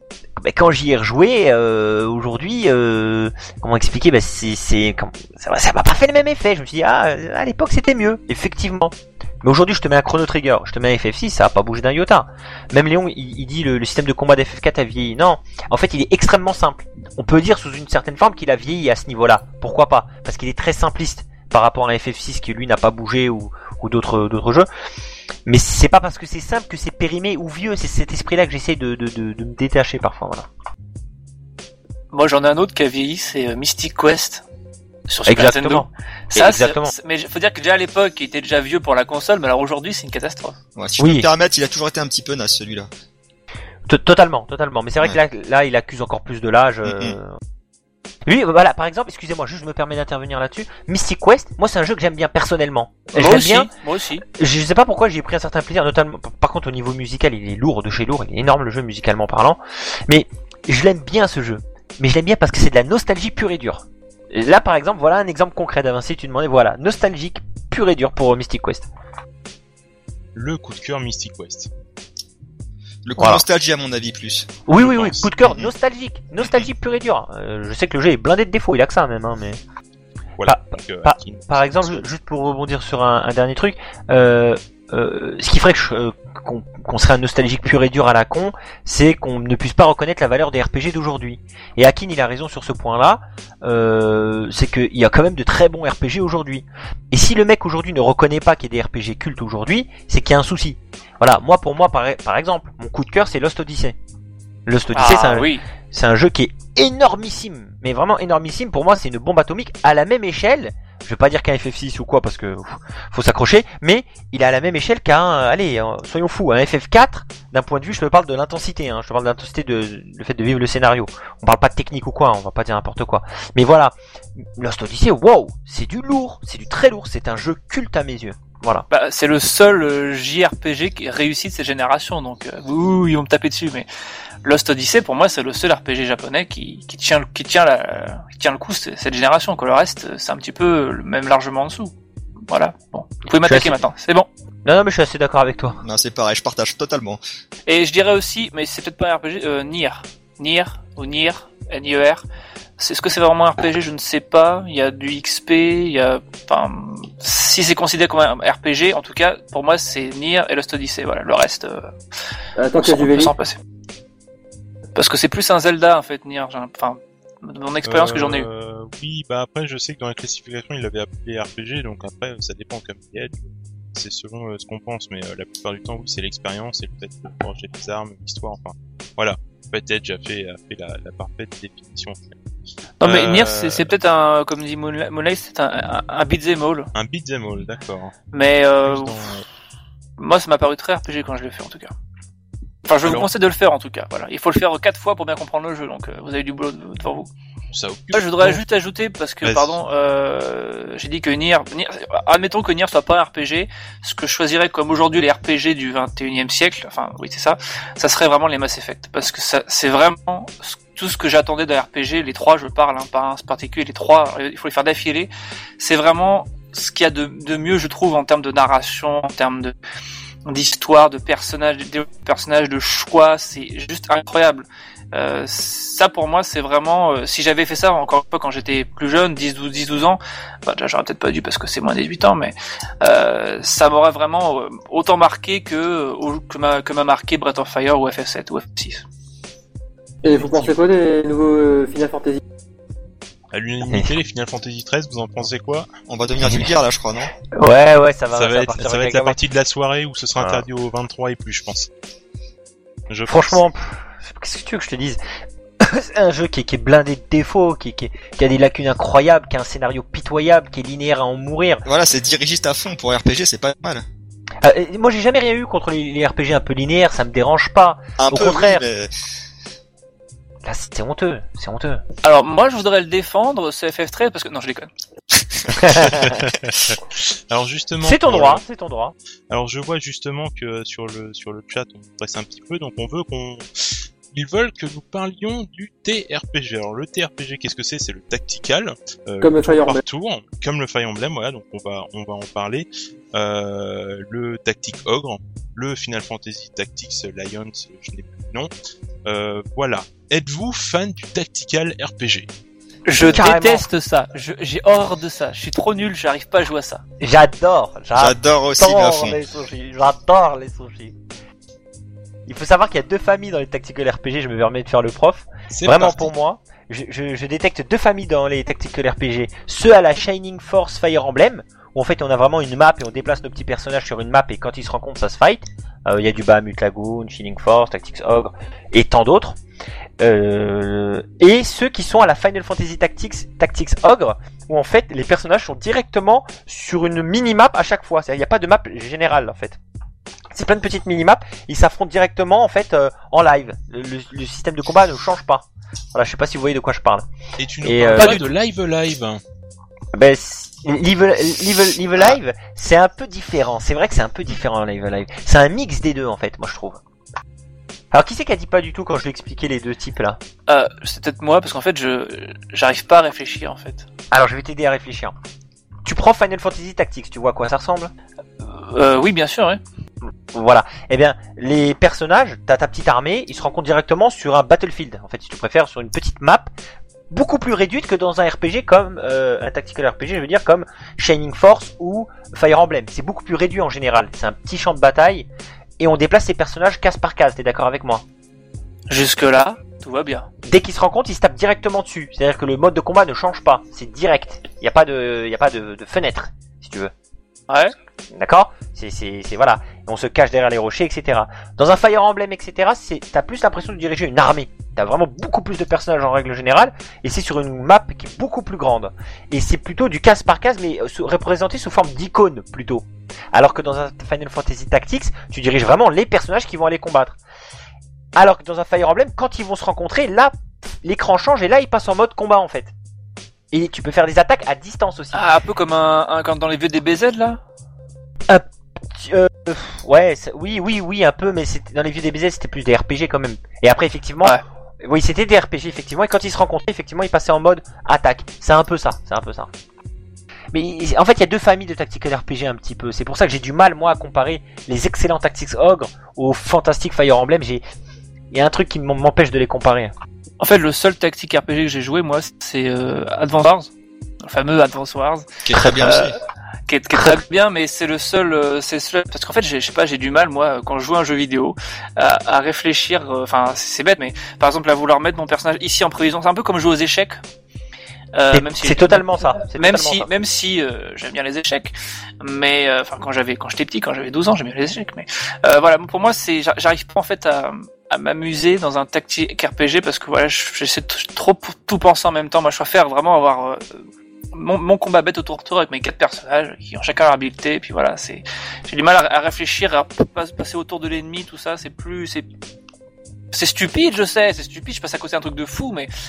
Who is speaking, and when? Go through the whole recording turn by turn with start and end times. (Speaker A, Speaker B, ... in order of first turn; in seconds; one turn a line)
Speaker A: 0.4-24.7
Speaker A: 25.4-30.5
Speaker B: 32.1-34.4
Speaker B: 35.1-40.5
Speaker A: 35.2-36.9
Speaker C: 40.8-42.9
Speaker A: 41.0-41.3
Speaker A: 43.9-47.4
Speaker C: 46.9-47.1
Speaker A: 48.3-53.7
Speaker B: 53.1-54.2
Speaker A: 54.3-68.9
Speaker D: 70.3-71.7
Speaker C: 73.0-74.5
Speaker A: 73.2-73.4
Speaker A: 74.7-79.6
Speaker D: 74.8-75.3
Speaker D: 80.4-82.1
Speaker A: 80.5-104.0
Speaker A: 104.7-128.9
Speaker B: 104.9-105.6
Speaker B: 128.9-133.9
Speaker B: 134.4-141.9
Speaker B: 142.5-144.3
Speaker A: 143.4-143.8
Speaker A: 144.6-145.8
Speaker C: 145.8-147.2
Speaker B: 147.7-152.2
Speaker B: 152.8-161.9
Speaker E: 162.6-163.3
Speaker B: 162.8-163.6
Speaker B: 164.9-168.5
Speaker D: 167.8-182.4
Speaker B: 183.0-186.9
Speaker D: 183.0-183.9
Speaker D: 186.9-188.1
Speaker B: 188.3-189.3
Speaker D: 188.8-189.4
Speaker B: 190.2-191.9
Speaker B: 192.8-197.3
Speaker D: 193.0-193.3
Speaker D: 197.7-198.6
Speaker B: 198.1-219.7
Speaker D: 199.4-199.7
Speaker B: 220.4-239.0
Speaker E: 240.2-242.4
Speaker D: 240.2-240.7
Speaker D: 243.5-245.9
Speaker C: 246.1-247.3
Speaker A: 246.4-246.7
Speaker A: 247.5-249.4
Speaker D: 248.3-251.9
Speaker A: 250.4-250.6
Speaker D: 253.1-253.6
Speaker A: 253.3-255.2
Speaker A: 255.8-261.8
Speaker C: 261.8-264.0
Speaker A: 264.6-268.8
Speaker C: 268.2-269.1
Speaker A: 270.6-272.0
Speaker B: 272.2-274.9
Speaker D: 275.8-278.6
Speaker A: 278.0-279.1
Speaker D: 279.5-298.7
Speaker E: 289.4-290.0
Speaker D: 299.2-302.5
Speaker B: 303.1-307.0
Speaker A: 303.1-303.9
Speaker A: 307.2-311.1
Speaker C: 308.2-309.4
Speaker A: 312.4-329.6
Speaker D: 315.7-316.3
Speaker A: 330.2-339.8
Speaker A: 340.5-347.3
Speaker D: 347.6-349.4
Speaker A: 347.8-348.4
Speaker B: 348.2-348.4
Speaker A: 350.1-357.0
Speaker A: 358.1-360.4
Speaker B: 360.7-364.1
Speaker A: 364.3-365.3
Speaker A: 366.0-368.1
Speaker B: 368.6-369.8
Speaker A: 370.5-376.7
Speaker A: 377.3-385.5
Speaker A: 386.0-388.2
Speaker B: 389.1-390.5
Speaker A: 390.7-397.1
Speaker B: 397.7-397.9
Speaker A: 398.3-417.4
Speaker A: 418.4-422.9
Speaker A: 423.7-425.5
Speaker B: 425.3-427.6
Speaker A: 428.5-439.7
Speaker A: 440.7-447.8
Speaker A: 448.5-450.1
Speaker B: 450.6-453.9
Speaker B: 454.4-455.4
Speaker C: 455.6-456.4
Speaker A: 455.7-456.1
Speaker B: 456.0-456.3
Speaker B: 456.9-467.4
Speaker A: 457.1-457.4
Speaker B: 468.3-484.0
Speaker A: 468.5-470.3
Speaker B: 484.5-492.5
Speaker B: 493.5-496.1